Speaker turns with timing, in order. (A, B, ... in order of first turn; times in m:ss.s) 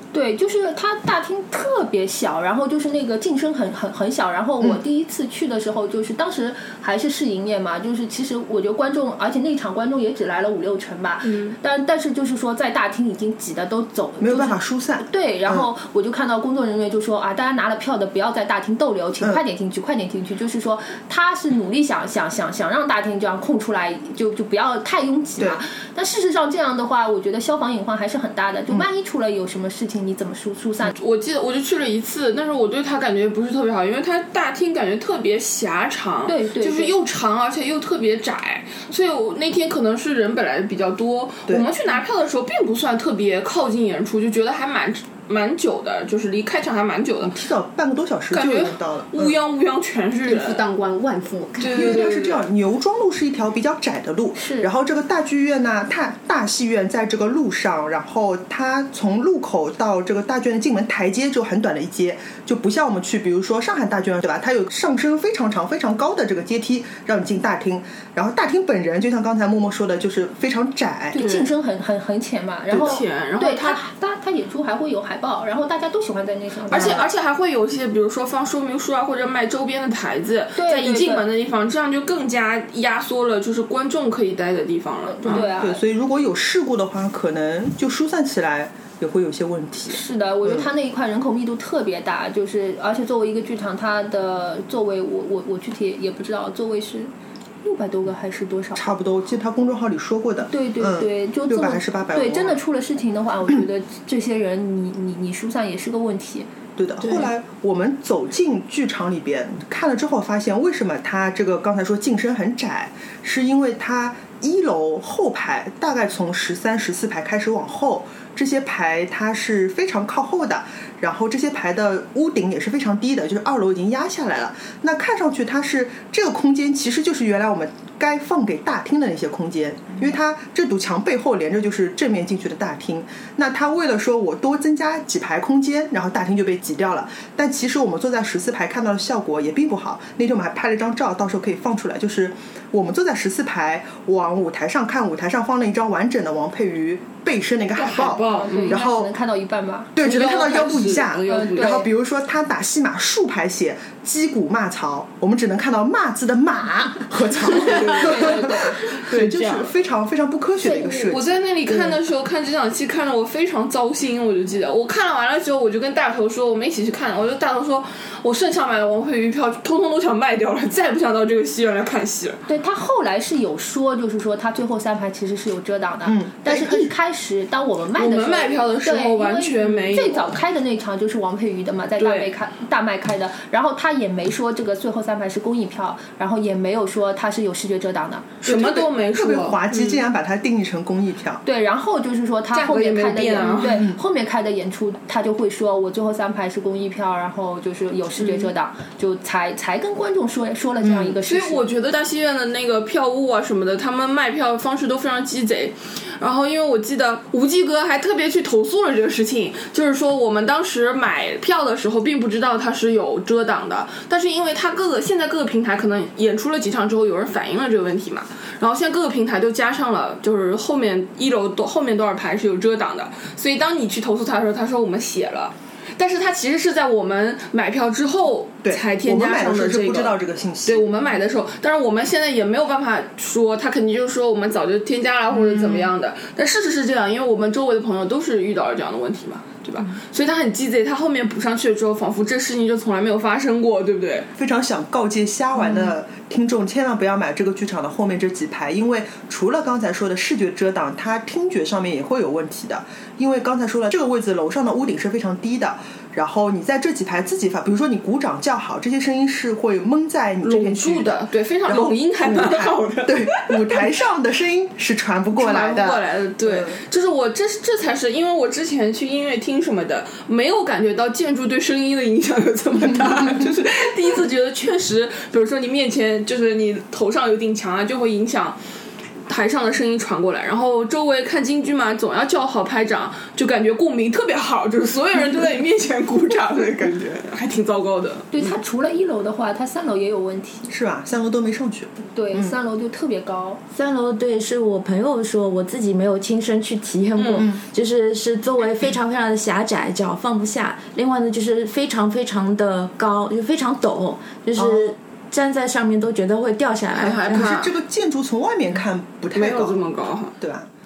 0:00.1-0:31.0 A
0:11.2-0:11.6 B
0:14.2-0:15.7 C
0:25.4-0:25.6 C
0:31.0-0:47.4 D
0:36.3-0:37.0 A
0:47.2-0:49.4 C
0:48.3-0:50.6 D
0:50.3-0:52.2 B
0:51.6-0:52.4 D
0:51.7-1:11.2 C
0:54.4-0:54.7 A
1:11.1-1:17.1 A
1:11.2-1:11.4 D
1:12.7-1:13.8 D
1:16.7-1:25.5 D
1:16.7-1:17.1 C
1:20.6-1:21.3 A
1:25.2-1:25.8 A
1:25.4-1:30.7 C
1:29.9-1:37.1 A
1:37.6-1:38.9 A
1:38.8-1:42.6 C
1:40.5-1:46.5 A
1:46.8-2:29.1 C
1:47.0-1:47.3 A
2:27.8-2:28.8 D
2:28.0-2:29.9 A
2:29.9-2:42.0 C
2:30.0-2:31.8 D
2:31.3-2:31.9 A
2:37.5-2:39.7 D
2:40.7-2:41.1 A
2:41.1-2:52.4 D
2:52.5-3:08.4 A
2:56.0-2:56.9 C
2:58.0-3:00.4 D
3:02.0-3:02.3 D
3:08.4-3:09.6 D
3:08.4-3:11.4 C
3:09.7-3:10.0 B
3:11.4-3:21.6 A
3:12.5-3:13.9 D
3:13.6-3:14.0 C
3:20.8-3:21.2 C
3:21.3-4:04.3 D
3:48.6-3:50.8 C
3:55.4-3:55.9 C
4:04.4-4:26.8 C
4:05.6-4:05.9 D
4:20.4-4:23.9 D
4:25.4-4:38.6 D
4:39.3-4:48.3 D
4:48.3-4:50.7 A
4:50.7-4:52.6 C
4:52.0-4:53.6 A
4:53.7-5:07.6 E
4:57.2-4:57.5 D
5:04.6-5:05.0 C
5:07.0-5:07.7 D
5:07.3-5:09.8 C
5:09.3-5:10.4 D
5:10.4-5:10.7 C